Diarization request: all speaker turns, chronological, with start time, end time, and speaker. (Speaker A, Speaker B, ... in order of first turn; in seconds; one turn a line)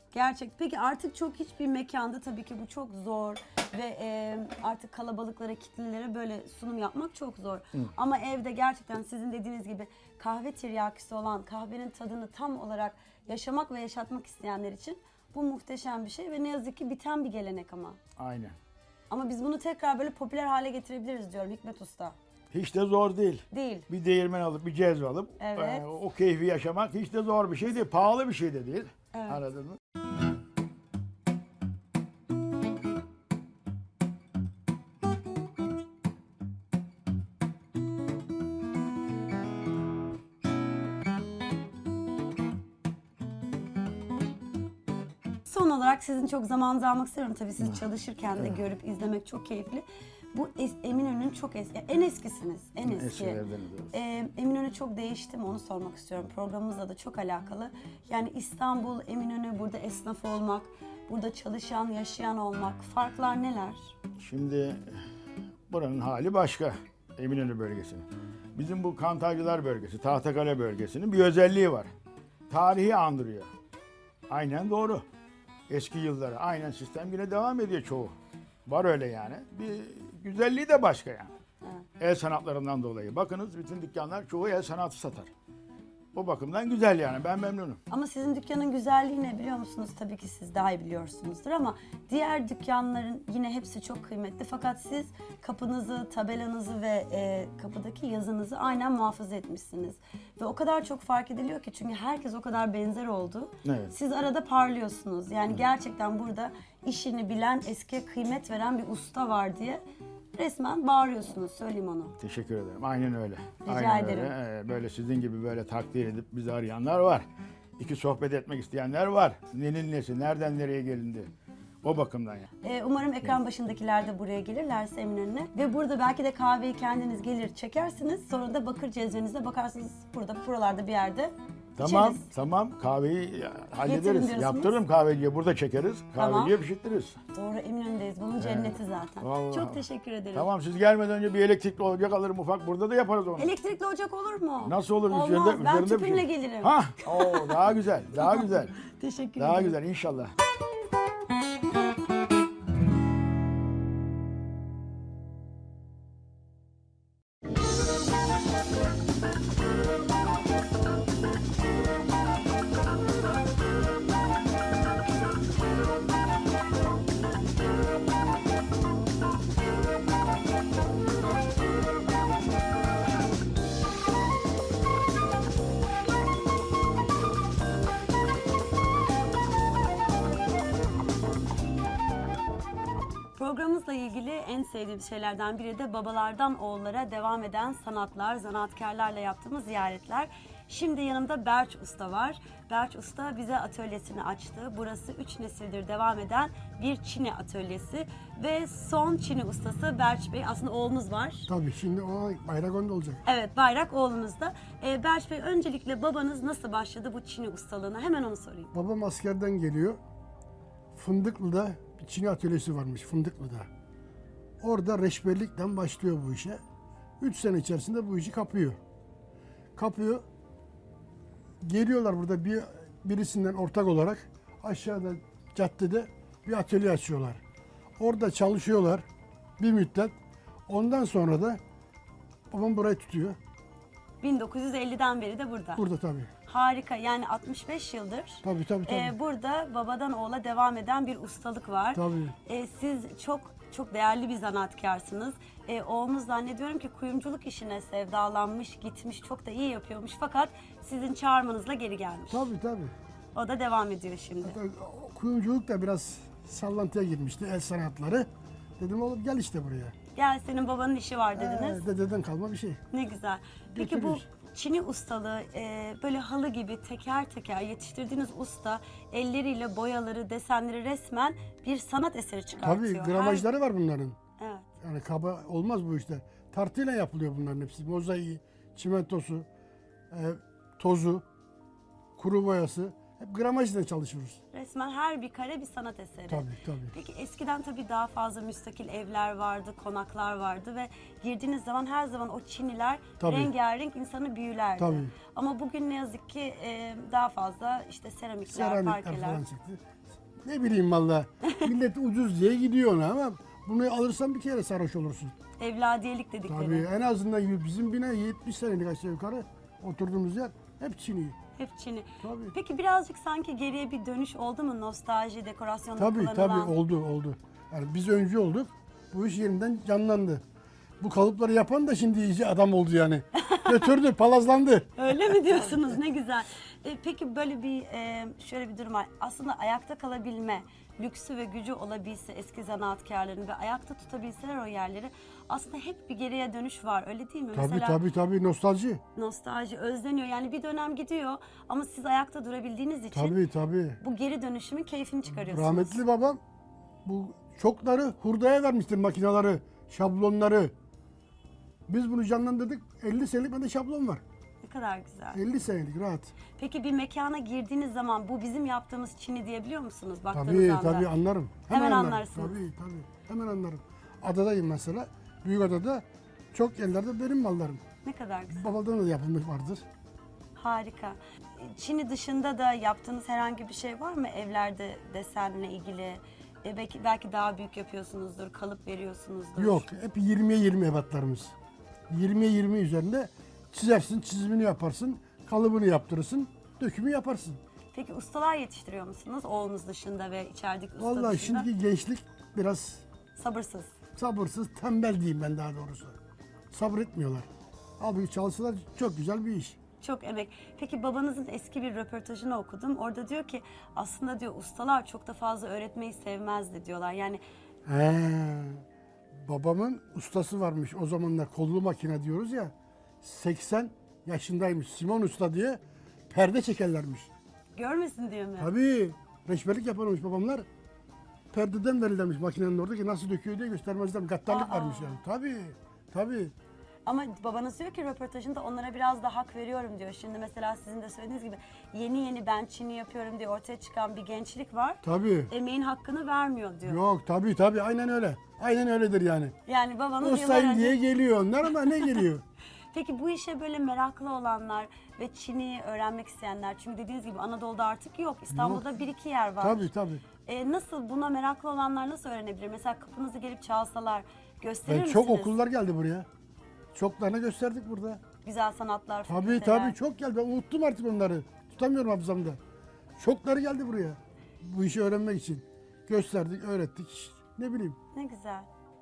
Speaker A: 0.1-18.0
Speaker B: 18.2-18.6
Speaker A: 19.1-22.2
Speaker B: 22.5-29.8
Speaker A: 23.5-23.9
Speaker A: 25.4-25.8
Speaker A: 29.1-29.4
Speaker A: 45.5-53.4
Speaker B: 52.9-53.9
Speaker A: 53.9-63.9
Speaker B: 64.2-65.0
Speaker B: 65.7-71.9
Speaker B: 72.5-73.5
Speaker B: 74.3-75.0
Speaker B: 75.7-78.1
Speaker B: 78.7-81.3
Speaker B: 82.0-85.3
Speaker B: 86.1-87.8
Speaker A: 87.9-109.8
Speaker B: 103.6-103.9
Speaker A: 110.4-112.2
Speaker B: 112.2-117.2
Speaker A: 113.7-114.3
Speaker B: 117.8-121.3
Speaker B: 121.8-122.5
Speaker A: 122.6-132.2
Speaker B: 131.8-137.2
Speaker A: 133.9-134.8
Speaker A: 136.2-136.5
Speaker A: 137.3-140.5
Speaker B: 138.4-139.8
Speaker B: 140.3-143.5
Speaker A: 143.4-147.6
Speaker B: 144.7-148.8
Speaker A: 148.2-149.8
Speaker B: 149.4-150.3
Speaker A: 183.4-201.5
Speaker C: 201.5-203.2
Speaker A: 203.2-208.7
Speaker C: 208.7-210.0
Speaker C: 210.9-213.7
Speaker C: 214.6-216.6
Speaker C: 217.2-218.8
Speaker C: 219.8-220.2
Speaker C: 221.6-227.4
Speaker C: 228.0-229.1
Speaker C: 229.6-230.2
Speaker C: 230.7-231.6
Speaker C: 232.5-233.4
Speaker A: 234.2-235.8
Speaker C: 235.8-236.3
Speaker A: 236.5-252.5
Speaker C: 238.4-239.1
Speaker C: 241.9-242.3
Speaker C: 252.3-252.9
Speaker A: 253.3-254.6
Speaker C: 254.4-259.9
Speaker A: 260.2-261.8
Speaker C: 261.4-262.8
Speaker A: 262.9-273.5
Speaker C: 263.7-264.2
Speaker C: 272.6-274.2
Speaker A: 274.4-274.7
Speaker C: 274.8-279.5
Speaker C: 280.1-281.2
Speaker C: 282.2-284.4
Speaker A: 284.5-299.4
Speaker C: 286.3-286.9
Speaker C: 293.2-293.5
Speaker C: 294.8-295.1
Speaker C: 298.5-299.8
Speaker C: 300.4-305.3
Speaker A: 305.6-306.9
Speaker C: 306.5-311.4
Speaker A: 311.6-316.7
Speaker C: 312.2-312.6
Speaker C: 316.0-320.4
Speaker C: 321.0-325.7
Speaker A: 325.0-338.0
Speaker C: 337.5-339.0
Speaker A: 339.2-343.4
Speaker C: 343.1-344.0
Speaker A: 344.0-346.0
Speaker C: 345.5-346.4
Speaker C: 347.0-350.7
Speaker C: 351.9-354.2
Speaker A: 354.6-355.4
Speaker C: 355.3-356.3
Speaker A: 356.6-361.1
Speaker C: 360.3-367.8
Speaker A: 361.7-362.6
Speaker A: 368.0-368.7
Speaker C: 368.5-369.9
Speaker A: 370.6-379.9
Speaker C: 379.6-381.5
Speaker C: 382.1-387.6
Speaker A: 387.9-391.7
Speaker C: 391.0-393.0
Speaker A: 393.4-393.9
Speaker C: 394.2-396.1
Speaker C: 396.7-397.5
Speaker C: 398.0-399.8
Speaker A: 400.0-407.4
Speaker C: 407.9-408.8
Speaker C: 409.3-417.3
Speaker A: 417.8-418.7
Speaker C: 418.6-420.7
Speaker C: 421.5-426.5
Speaker A: 424.5-425.2
Speaker A: 427.1-437.0
Speaker C: 435.0-435.5
Speaker C: 436.9-439.6
Speaker A: 439.7-441.0
Speaker C: 440.2-442.4
Speaker A: 442.9-449.9
Speaker C: 448.5-448.8
Speaker C: 449.6-450.2
Speaker A: 450.5-455.6
Speaker C: 454.9-456.3
Speaker C: 456.9-458.2
Speaker A: 458.4-460.0
Speaker C: 459.3-462.6
Speaker C: 463.2-468.0
Speaker A: 468.1-468.7